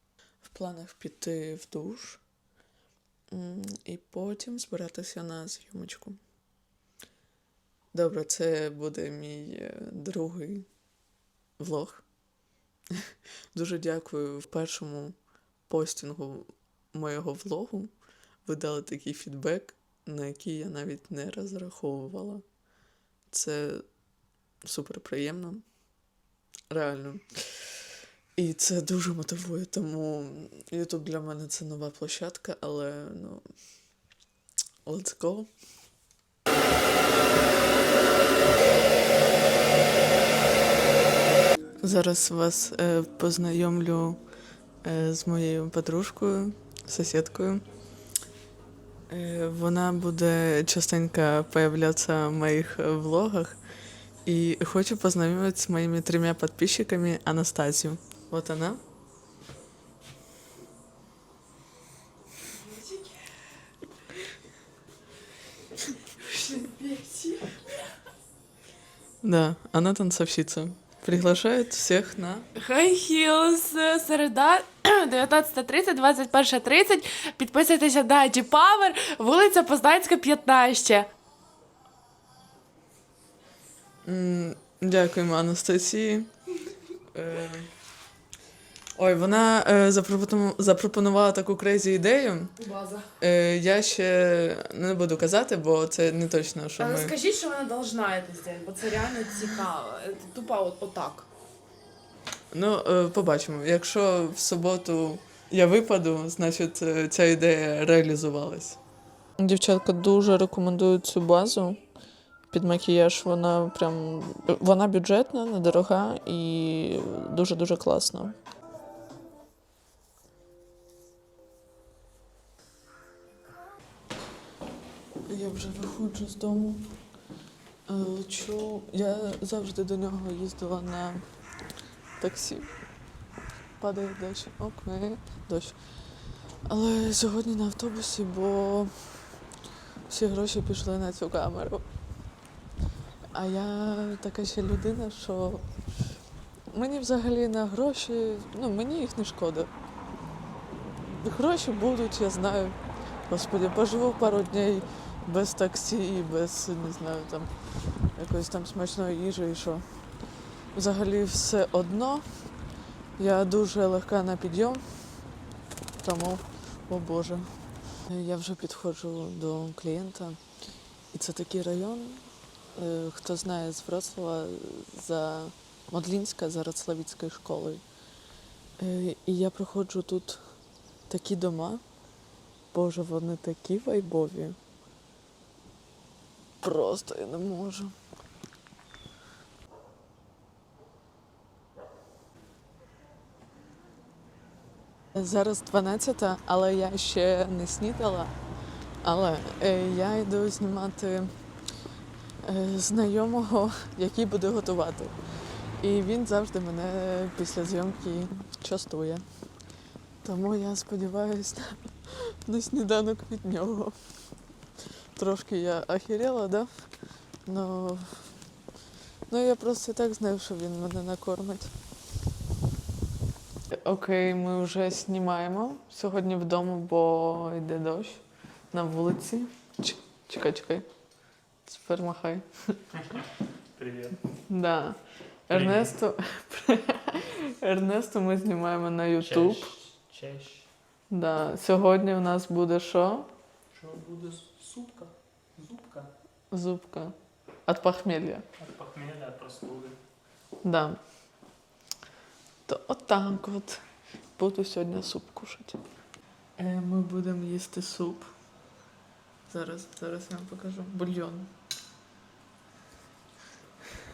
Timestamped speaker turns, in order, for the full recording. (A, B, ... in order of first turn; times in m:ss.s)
0:00.4-0:02.2 A
0:03.3-0:06.2 A
0:07.9-0:10.7 A
0:11.6-0:12.1 A
0:13.5-0:22.5 A
0:23.3-0:24.0 A
0:24.6-0:25.8 A
0:26.7-0:27.9 A
0:28.4-0:33.6 A
0:34.8-0:35.5 A
0:41.8-0:44.2 A
0:44.8-0:47.6 A
0:49.1-0:53.6 A
0:54.2-0:58.8 A
1:02.5-1:03.3 B
1:06.2-1:07.9 B
1:09.2-1:12.5 A
1:12.5-1:21.1 B
1:24.0-1:26.3 A
1:27.1-1:27.7 A
1:29.0-1:32.6 A
1:32.6-1:33.1 B
1:33.2-1:37.1 A
1:36.8-1:41.3 B
1:42.5-1:48.8 A
1:49.4-1:51.8 A
1:52.5-1:58.4 A
2:05.3-2:07.0 A
2:07.9-2:11.3 A
2:12.2-2:12.8 A
2:13.8-2:19.2 A
2:20.1-2:21.8 A
2:23.3-2:25.8 A
2:26.7-2:29.7 A
2:31.0-2:45.4 A
2:46.0-2:50.4 A
2:51.1-2:57.8 A
2:58.8-3:01.8 A
3:02.7-3:04.6 A
3:06.6-3:07.9 A
3:15.1-3:18.4 A
3:19.0-3:21.4 A
3:22.4-3:29.3 A
3:30.2-3:34.4 A
3:35.2-3:38.5 A
3:39.3-3:41.7 A
3:43.7-3:50.9 A
3:51.7-3:52.8 A
3:53.8-3:54.2 C
3:54.5-3:59.6 A
3:55.5-3:56.0 C
3:59.2-4:00.7 C
4:01.1-4:03.3 A
4:03.7-4:06.1 C
4:06.5-4:08.4 A
4:08.6-4:10.0 C
4:10.6-4:11.0 A
4:12.7-4:13.8 A
4:14.4-4:15.8 A
4:16.6-4:18.3 A
4:19.5-4:21.5 A